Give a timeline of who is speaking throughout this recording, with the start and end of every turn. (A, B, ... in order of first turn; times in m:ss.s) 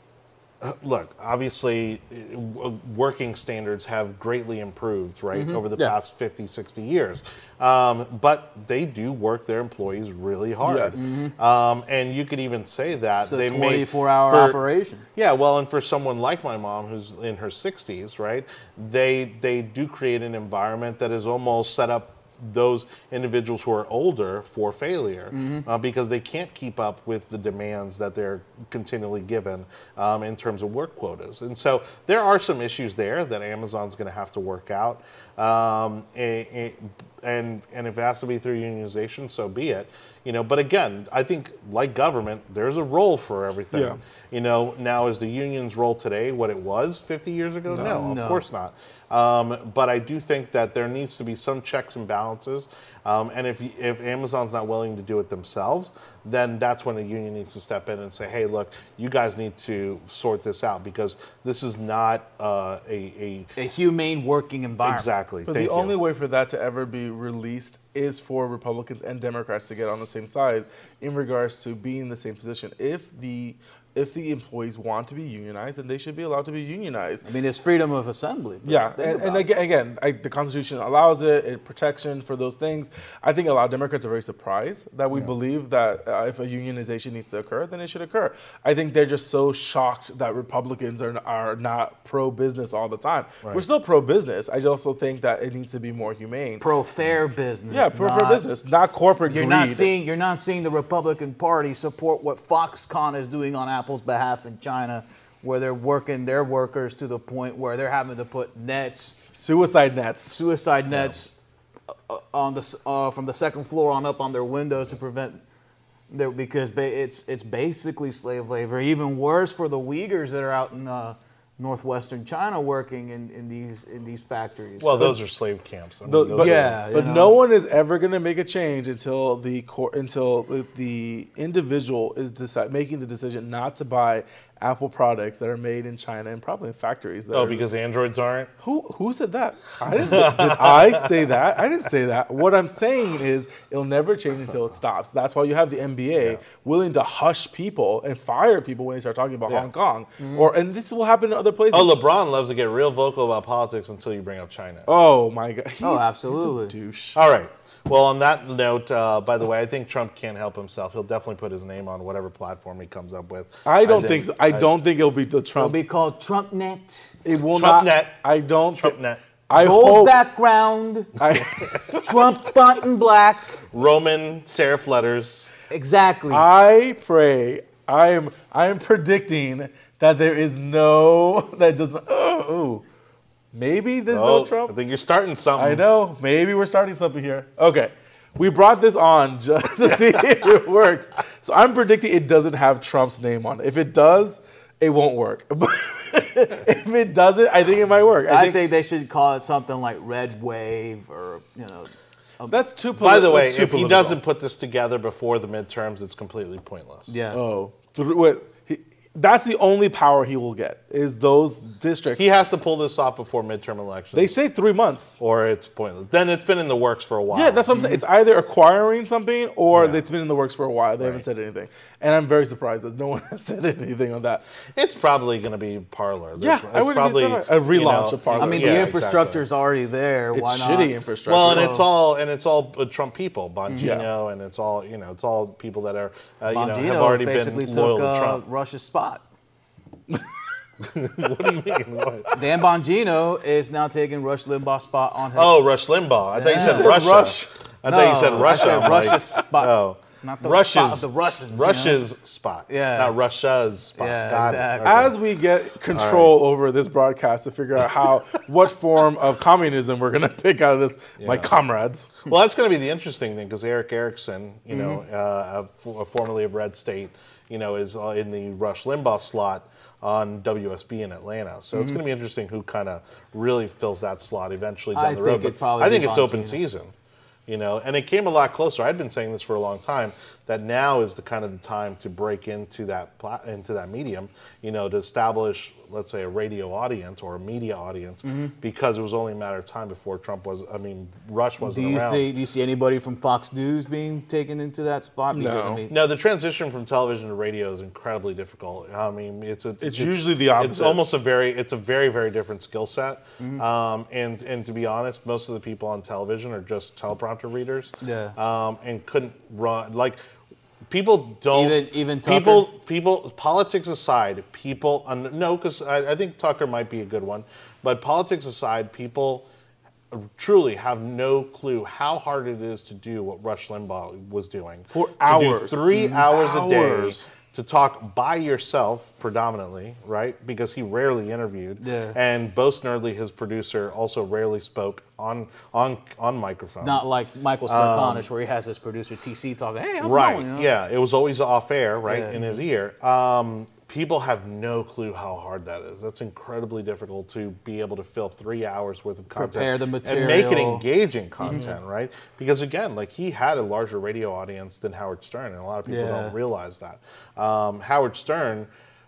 0:00.6-0:14.6 A
0:05.3-0:05.9 B
0:10.6-0:11.0 C
0:11.0-0:11.3 B
0:13.2-0:15.0 B
0:15.2-1:03.5 A
0:25.3-0:25.7 B
0:43.7-0:44.0 C
0:47.7-0:48.0 C
0:47.8-0:48.4 B
1:03.6-1:05.1 B
1:04.8-1:06.0 A
1:05.5-1:17.2 C
1:17.2-1:19.5 B
1:18.6-1:36.7 C
1:36.6-1:38.4 B
1:37.7-1:39.9 C
1:39.3-1:49.2 B
1:49.3-1:50.4 C
1:50.3-1:51.4 B
1:52.1-1:55.4 B
1:56.1-2:05.2 B
2:04.8-2:06.8 A
2:06.1-2:17.6 C
2:06.4-2:07.4 B
2:17.3-2:18.5 A
2:18.6-2:32.0 C
2:19.9-2:21.4 A
2:30.2-2:30.5 B
2:31.7-2:34.9 A
2:34.9-2:37.2 C
2:35.8-2:36.7 B
2:37.2-2:44.7 A
2:43.7-2:45.8 C
2:45.6-2:47.2 B
2:47.2-2:49.0 C
2:47.5-2:48.2 A
2:48.8-2:49.2 A
2:49.5-2:50.2 C
2:49.5-2:51.2 B
2:51.2-2:52.3 C
2:51.9-2:53.7 B
2:53.7-2:55.5 A
2:55.7-2:56.4 B
2:56.3-3:02.8 C
3:03.5-3:04.7 C
3:04.1-3:05.8 A
3:05.6-3:18.6 C
3:18.3-3:22.6 B
3:22.5-3:24.2 C
3:23.0-3:27.1 A
3:27.1-3:27.4 B
3:27.3-3:32.2 C
3:32.2-3:34.4 A
3:34.1-3:35.2 C
3:35.2-3:37.7 A
3:37.3-3:44.4 C
3:37.7-3:38.0 B
3:39.7-3:40.0 A
3:41.0-3:41.2 A
3:44.8-3:49.4 A
3:46.4-3:48.9 C
3:48.4-3:51.8 B
3:50.3-3:51.8 C
3:51.3-3:58.4 A
3:53.7-3:54.0 B
3:53.8-3:54.1 C
3:56.5-3:59.2 B
4:00.8-4:02.3 A
4:02.3-4:05.6 B
4:05.3-4:15.2 A
4:06.3-4:07.0 B
4:06.5-4:07.5 C
4:07.8-4:12.0 B
4:08.4-4:09.4 C
4:12.7-4:13.1 B
4:14.0-4:15.1 B
4:14.8-4:22.2 C
4:15.9-4:16.3 A
4:21.2-4:21.5 A
4:22.3-4:36.9 A
4:24.7-4:25.0 B
4:31.7-4:32.0 B
4:34.9-4:36.6 B
4:37.5-4:52.3 A
4:48.2-4:48.5 B
4:51.6-4:56.0 B
4:55.3-4:55.8 C
4:55.9-5:10.2 A
4:59.8-5:01.0 C
5:08.0-5:08.4 B
5:10.9-5:19.5 A
5:11.5-5:12.7 B
5:20.1-5:37.0 A
5:24.9-5:27.3 C
5:25.9-5:26.3 B
5:31.8-5:32.2 B
5:36.8-5:40.7 B
5:37.7-5:38.3 A
5:40.0-5:58.7 A
5:42.1-5:42.6 B
5:49.4-5:50.8 B
5:51.5-5:51.8 C
5:55.9-5:56.3 B